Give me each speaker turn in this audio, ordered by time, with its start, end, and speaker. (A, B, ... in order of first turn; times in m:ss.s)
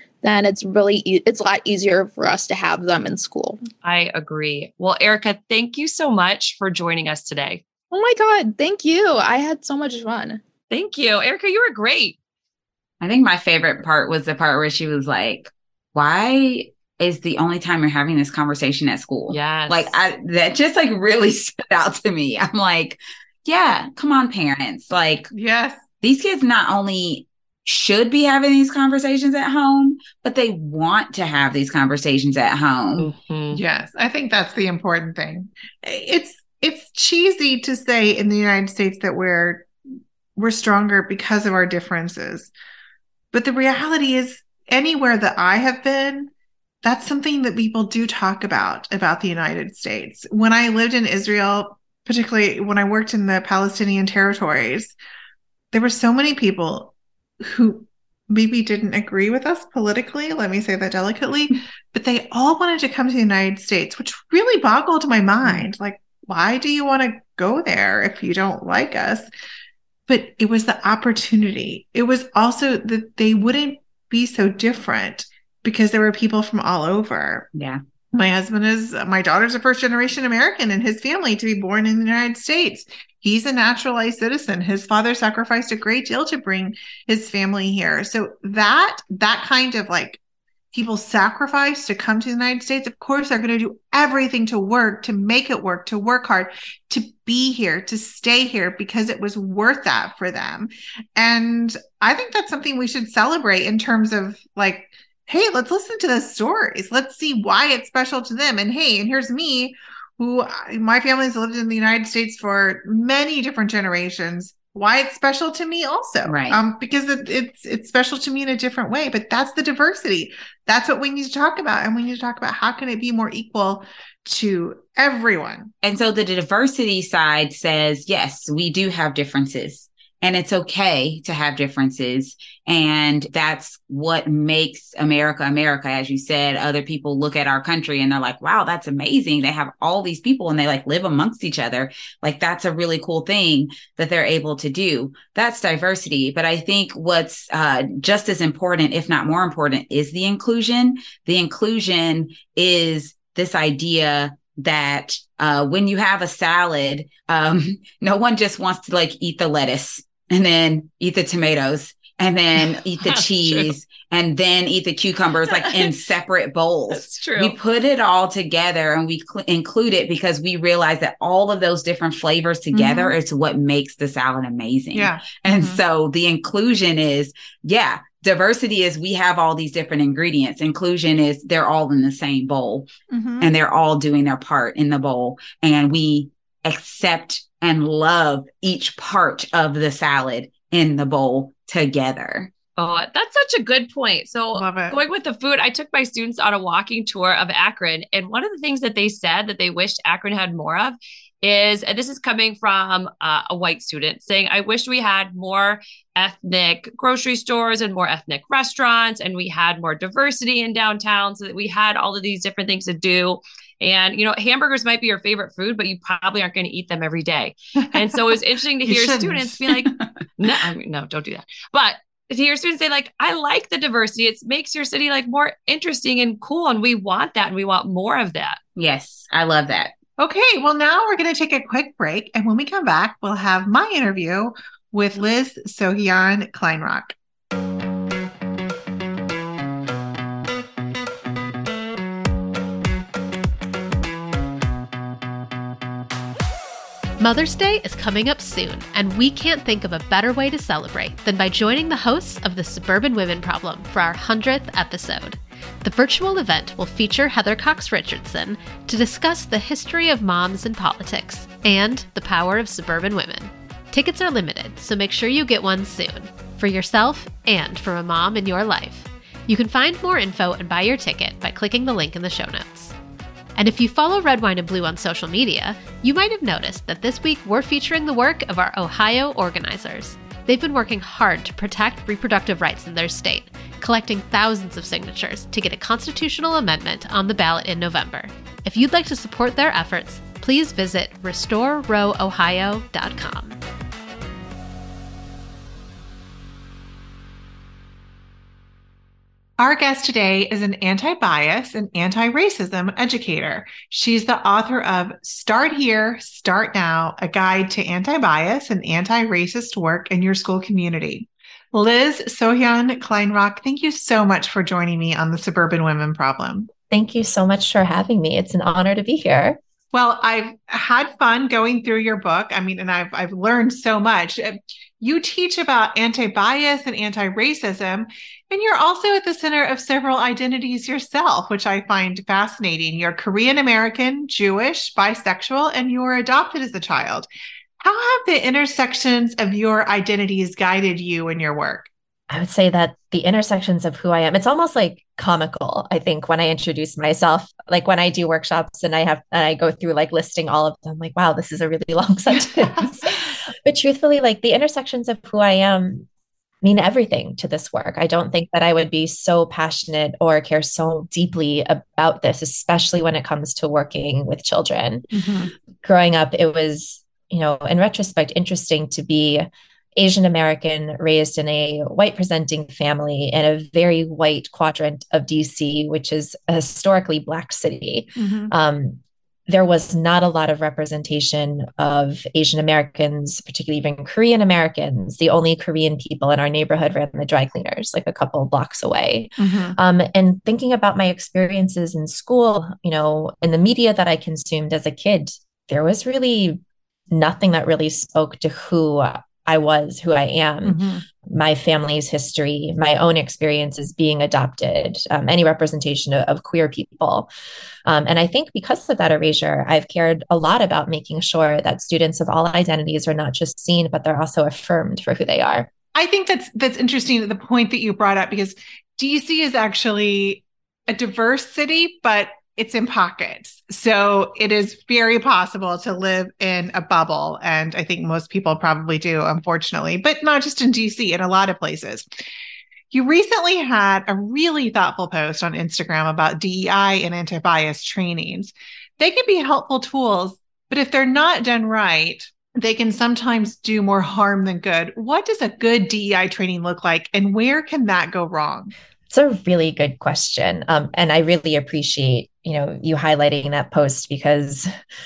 0:00.2-0:03.6 A
0:03.8-0:07.6 B
0:07.9-0:10.4 A
0:10.7-0:12.2 B
0:13.0-0:25.3 C
0:19.3-0:20.0 B
0:25.3-0:25.8 D
0:26.0-0:33.1 C
0:33.0-0:33.6 B
0:33.5-0:39.7 D
0:40.4-0:42.5 D
0:43.3-0:46.3 D
0:46.8-0:54.9 D
0:55.7-1:09.3 D
1:10.1-1:17.5 D
1:17.6-1:17.8 C
1:18.1-1:30.2 D
1:30.7-2:05.7 D
1:56.3-1:56.6 C
2:05.8-3:02.9 C
2:43.0-2:43.7 B
2:45.5-2:45.9 B
2:46.9-2:47.6 B
2:52.7-2:53.2 D
2:54.9-2:55.8 D
3:03.1-3:03.5 D
3:03.4-3:12.5 C
3:12.8-3:48.6 B
3:14.5-3:15.0 D
3:38.9-3:39.6 D
3:48.8-3:49.9 C
3:50.2-3:57.1 D
4:07.2-4:32.9 E
4:33.6-4:53.6 E
4:59.6-5:16.7 D
5:16.9-5:19.6 F
5:19.9-5:37.3 D
5:37.8-5:41.9 D
5:42.3-5:56.1 F
5:52.3-5:53.1 D
5:56.6-6:05.1 F
6:05.1-6:05.5 D
6:05.8-6:36.6 F
6:18.2-6:18.5 D
6:29.4-6:29.8 D
6:37.1-6:47.3 F
6:40.6-6:41.0 D
6:47.9-6:55.7 F
6:55.9-7:12.1 D
7:12.9-7:28.7 D
7:29.1-7:34.7 F